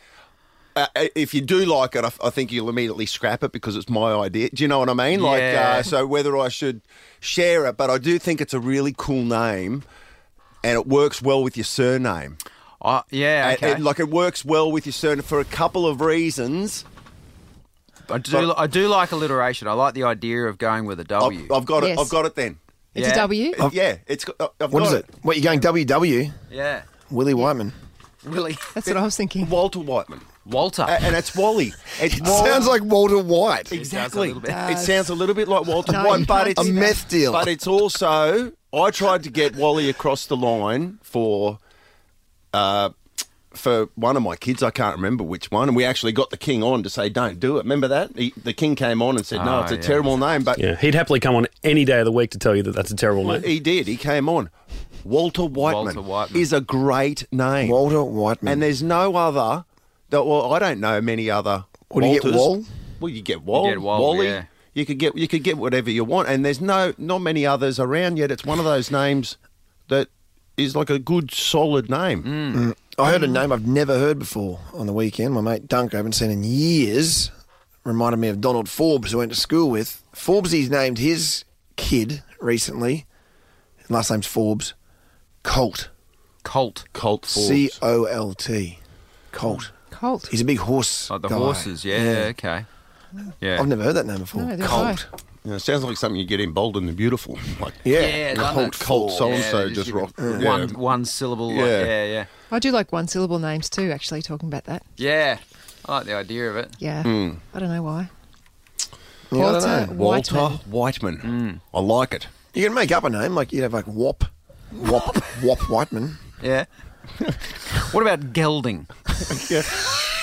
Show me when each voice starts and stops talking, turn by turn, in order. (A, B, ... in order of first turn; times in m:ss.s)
0:00.8-0:09.8 A
0:05.1-0:05.9 B
0:10.6-0:12.4 A
0:12.8-0:13.8 B
0:13.4-0:16.8 A
0:18.1-0:21.6 B
0:21.2-0:22.6 A
0:21.8-0:22.2 C
0:22.9-0:23.6 C
0:23.0-0:23.5 B
0:23.5-0:25.0 A
0:24.7-0:26.3 D
0:26.5-0:26.9 B
0:27.1-0:27.7 D
0:28.2-0:29.0 B
0:28.7-0:29.5 C
0:29.4-0:30.3 A
0:30.4-0:31.1 B
0:30.8-0:32.8 A
0:32.0-0:33.8 D
0:32.2-0:32.7 B
0:33.7-0:34.6 B
0:33.8-0:41.6 A
0:34.5-0:35.0 C
0:35.8-0:36.9 C
0:35.9-0:37.5 D
0:42.5-0:42.9 A
0:43.5-0:50.6 A
0:49.3-0:50.1 B
0:50.6-0:53.5 E
0:53.2-0:54.5 A
0:55.0-0:57.8 A
0:55.5-0:56.5 B
0:57.6-0:58.6 D
0:58.4-1:09.4 A
1:01.9-1:02.7 D
1:03.5-1:04.5 B
1:09.9-1:12.3 A
1:12.2-1:12.6 B
1:12.5-1:17.3 D
1:17.8-1:23.0 D
1:23.9-1:24.7 D
1:25.4-1:25.9 D
1:26.4-1:26.9 B
1:26.9-1:27.8 A
1:27.3-1:28.8 D
1:29.3-1:29.7 D
1:29.9-1:30.3 C
1:30.3-1:32.3 D
1:31.1-1:32.6 B
1:33.4-1:33.7 B
1:33.5-1:35.0 D
1:34.3-1:35.0 C
1:35.4-1:40.8 A
1:37.8-1:39.3 D
1:37.9-1:42.3 B
1:40.2-1:40.5 D
1:41.5-1:41.9 A
1:42.5-1:44.8 C
1:45.0-1:46.8 B
1:46.8-1:48.1 C
1:47.0-1:47.4 A
1:49.3-1:50.0 D
1:49.4-1:50.6 C
1:49.9-1:52.3 A
1:51.2-1:51.6 B
1:52.5-1:56.2 D
1:56.4-1:56.7 B
1:57.7-1:58.9 B
1:59.3-1:59.8 A